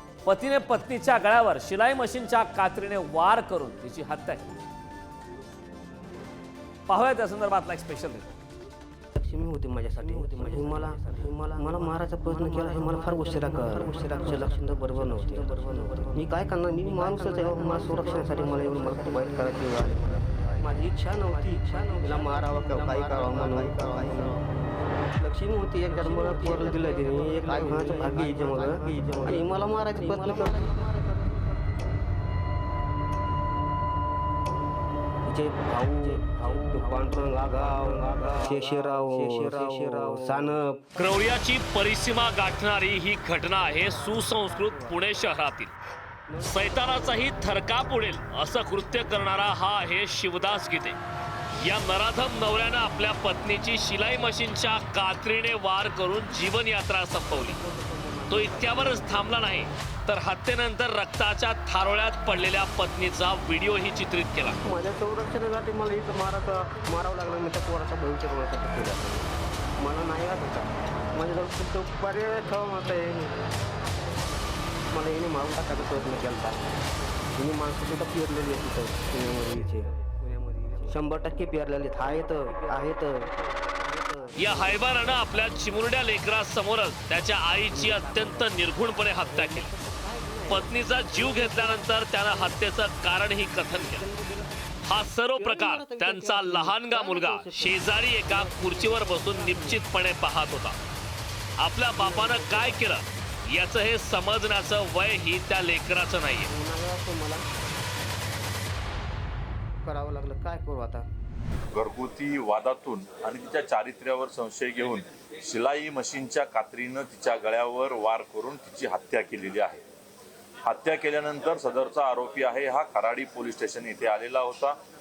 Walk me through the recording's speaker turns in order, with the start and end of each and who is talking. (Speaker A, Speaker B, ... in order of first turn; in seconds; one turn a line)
Speaker A: 0.3-4.6
Speaker A: 6.9-8.3
Speaker B: 9.2-20.0
Speaker B: 20.6-24.4
Speaker B: 25.5-30.7
Speaker B: 35.3-40.8
Speaker A: 41.0-45.7
Speaker A: 46.4-51.0
Speaker B: 46.7-47.3
Speaker A: 51.5-57.6
Speaker B: 57.4-59.4
Speaker A: 58.3-64.6
Speaker B: 64.6-69.3
Speaker B: 69.8-73.4
Speaker B: 74.9-76.6
Speaker B: 77.4-79.9
Speaker B: 80.9-83.3
Speaker B: 84.3-84.7
Speaker A: 84.4-89.7
Speaker B: 89.3-90.7
Speaker A: 90.5-94.1
Speaker A: 94.8-100.8
Speaker B: 95.4-99.8
Speaker A: 101.6-106.5
Speaker B: 102.0-102.8
Speaker B: 106.5-107.5
Speaker B: 109.8-111.1
Speaker C: 111.7-119.8
Speaker C: 120.7-124.8